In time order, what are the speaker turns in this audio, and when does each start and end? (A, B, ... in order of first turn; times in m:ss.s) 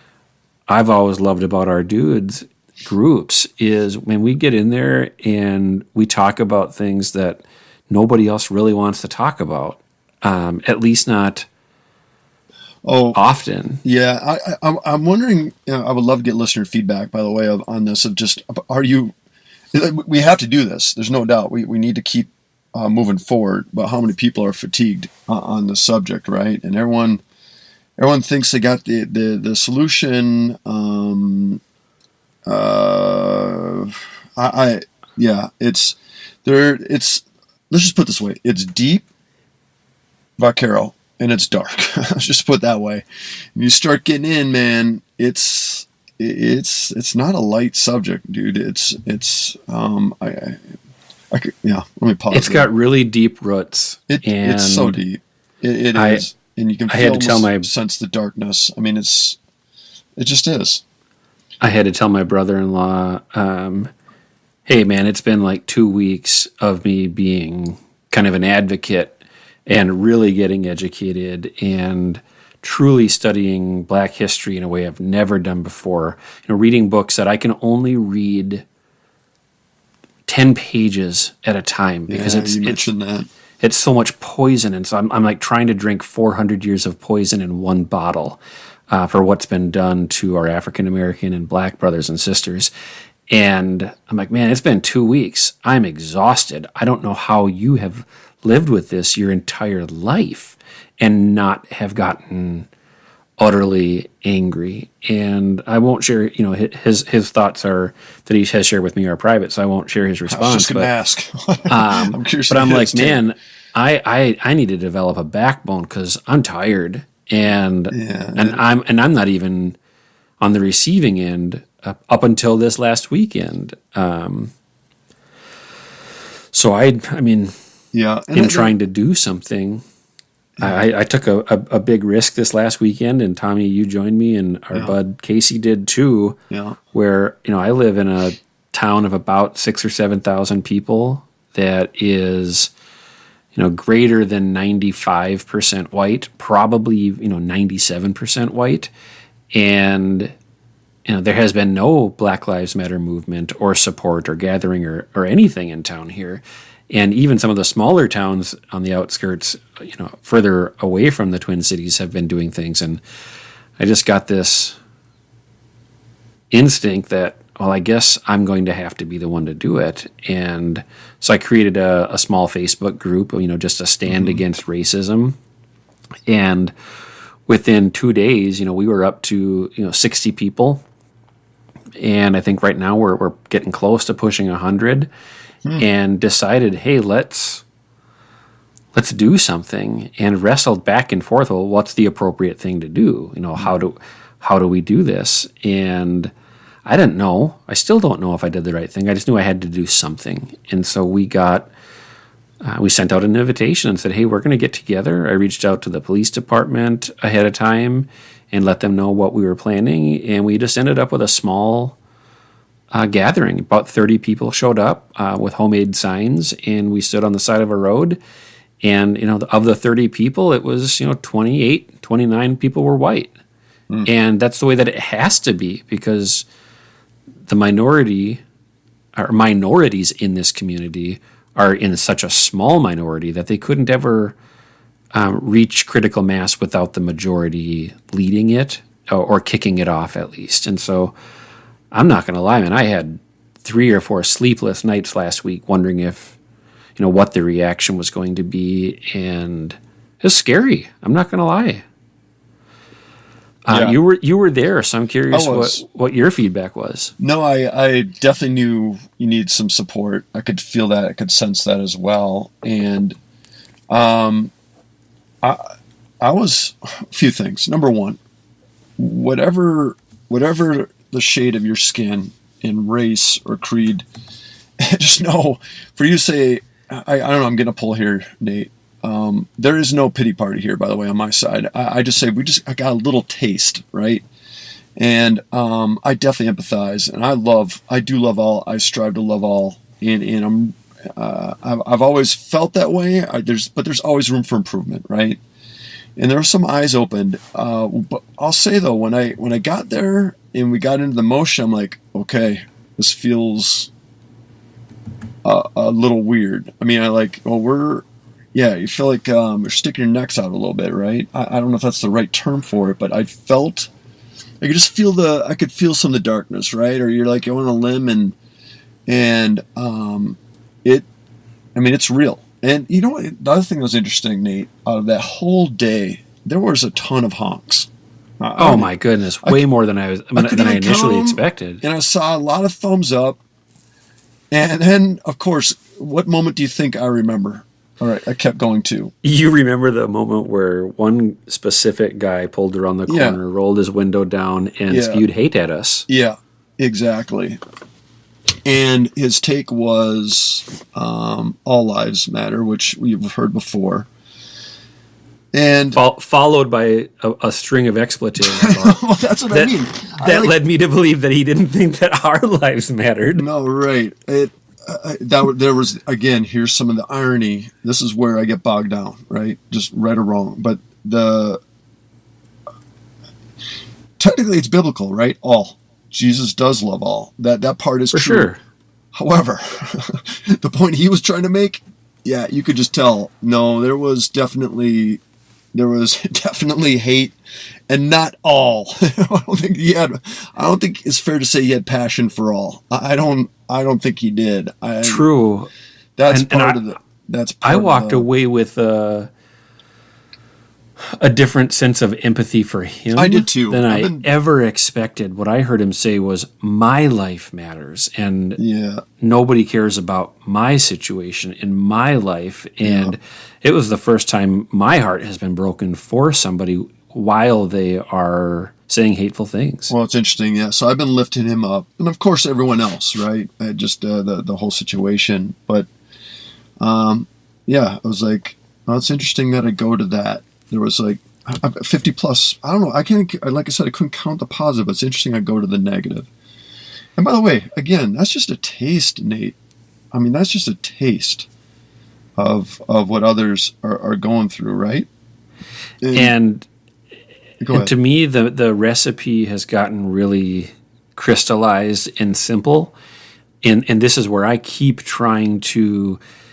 0:00.7-0:11.5 A
0:12.8-0:13.2 B
0:13.1-0:13.8 A
0:13.8-0:19.1 B
0:19.7-0:27.2 B
0:28.0-0:31.6 B
0:32.5-0:39.1 B
0:40.4-0:50.6 B
0:51.3-0:52.7 B
0:52.3-0:55.0 A
0:54.1-0:59.4 B
0:56.0-0:56.3 A
0:56.9-0:57.7 A
1:00.2-1:00.8 B
1:01.6-1:03.9 A
1:04.7-1:18.6 A
1:20.3-1:22.9 A
1:22.1-1:23.3 B
1:23.6-1:32.7 A
1:33.3-1:42.7 A
1:43.4-1:50.9 A
1:50.3-1:53.2 B
1:51.7-1:59.8 A
1:57.9-1:58.6 B
2:00.4-2:04.5 A
2:06.5-2:07.5 A
2:07.9-2:08.7 B
2:08.3-2:09.8 A
2:10.6-2:16.4 A
2:16.5-2:16.8 B
2:16.9-2:22.7 A
2:23.5-2:28.9 A
2:29.5-2:30.3 A
2:31.1-2:43.0 A
2:43.8-2:44.8 A
2:46.5-2:55.4 A
2:54.1-2:54.4 B
2:56.3-2:56.7 A
2:57.5-3:00.8 A
3:02.0-3:05.1 A
3:05.8-3:07.6 A
3:08.9-3:16.3 A
3:16.8-3:21.7 A
3:22.6-3:32.0 A
3:32.9-3:38.2 A
3:38.8-3:43.3 A
3:44.0-3:46.5 A
3:47.4-3:48.4 A
3:49.2-3:54.4 A
3:55.1-4:01.1 A
4:01.9-4:06.4 A
4:07.0-4:11.8 A
4:13.6-4:17.1 A
4:13.7-4:14.0 B
4:15.3-4:15.8 B
4:17.2-4:23.2 B
4:23.9-4:24.5 B
4:26.2-4:28.2 B
4:29.0-4:34.1 B
4:34.8-4:44.2 B
4:45.0-4:55.4 B
4:56.2-5:03.9 B
5:05.4-5:13.9 B
5:14.6-5:18.4 B
5:19.1-5:21.1 B
5:21.8-5:27.9 B
5:28.4-5:28.9 B
5:28.6-5:31.8 A
5:30.4-5:33.4 B
5:34.5-5:39.1 B
5:39.2-5:46.1 A
5:43.1-5:43.4 B
5:44.9-5:45.2 B
5:46.1-5:47.6 B
5:48.6-5:54.1 B
5:55.5-5:56.0 B
5:55.9-6:03.5 A
5:58.4-6:00.5 B
6:03.4-6:11.6 B
6:14.2-6:18.5 B
6:18.1-6:18.6 A
6:19.1-6:25.2 B
6:25.7-6:27.4 B
6:27.9-6:35.2 B
6:35.0-6:35.7 A
6:36.2-6:38.3 B
6:36.3-6:36.8 A
6:37.6-6:39.3 A
6:41.2-6:48.6 A
6:43.1-6:44.3 B
6:48.6-6:49.0 B
6:49.2-6:59.9 A
6:52.8-6:53.2 B
6:59.9-7:05.9 B
7:06.8-7:16.3 B
7:17.2-7:19.6 B
7:20.1-7:21.5 B
7:22.4-7:25.1 B
7:26.0-7:26.3 B
7:26.1-7:26.7 A
7:27.6-7:27.9 B
7:27.7-7:33.0 A
7:33.6-7:36.2 A